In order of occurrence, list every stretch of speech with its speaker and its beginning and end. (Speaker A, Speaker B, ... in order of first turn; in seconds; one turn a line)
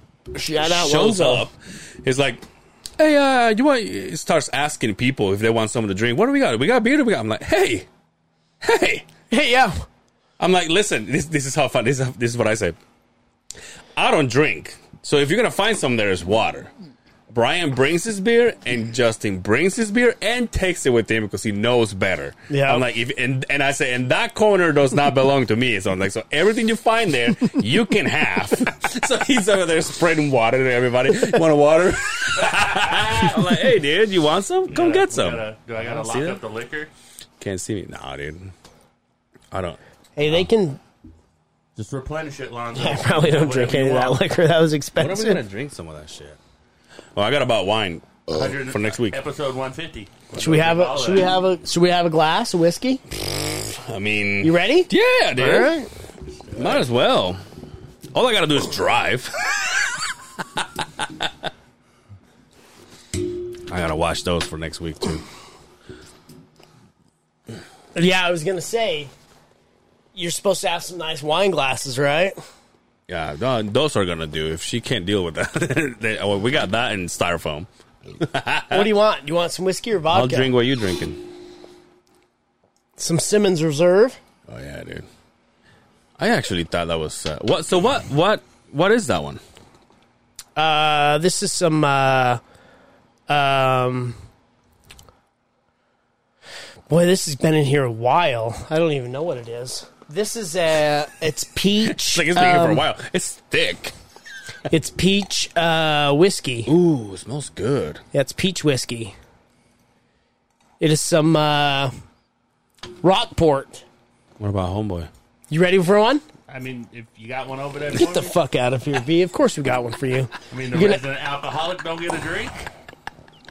Speaker A: 0.3-1.5
Speaker B: 0.6-2.4
Speaker B: 3.0-7.9
Speaker B: 8.6-9.1
Speaker A: 9.3-9.8
Speaker B: 10.4-12.8
Speaker B: 13.9-16.7
Speaker B: 17.3-36.4
Speaker A: 22.5-22.9
Speaker C: 32.5-33.3
Speaker C: 34.7-36.9
Speaker B: 37.4-38.5
Speaker B: 39.5-39.8
Speaker A: 40.2-40.8
Speaker C: 41.8-44.2
Speaker A: 42.8-45.4
Speaker B: 45.0-46.4
Speaker B: 47.1-49.2
Speaker C: 48.3-51.3
Speaker A: 50.4-53.0
Speaker B: 53.2-55.7
Speaker A: 54.4-55.9
Speaker C: 56.3-56.9
Speaker B: 56.5-57.4
Speaker B: 58.1-60.0
Speaker B: 60.6-61.3
Speaker B: 63.7-65.2
Speaker A: 68.0-69.1
Speaker A: 70.2-72.4
Speaker B: 73.1-78.9
Speaker A: 78.7-80.5
Speaker B: 80.1-81.3
Speaker A: 83.0-84.2
Speaker B: 84.5-85.1
Speaker B: 86.2-89.4
Speaker A: 90.6-92.4
Speaker A: 93.3-94.2
Speaker A: 96.9-102.8
Speaker B: 101.8-104.0
Speaker A: 104.7-106.7
Speaker B: 106.7-108.0
Speaker A: 108.1-109.2
Speaker A: 110.8-111.9
Speaker A: 113.0-113.8
Speaker B: 114.4-115.1
Speaker A: 115.5-116.2
Speaker C: 116.5-118.3
Speaker A: 117.9-121.0
Speaker C: 120.5-122.5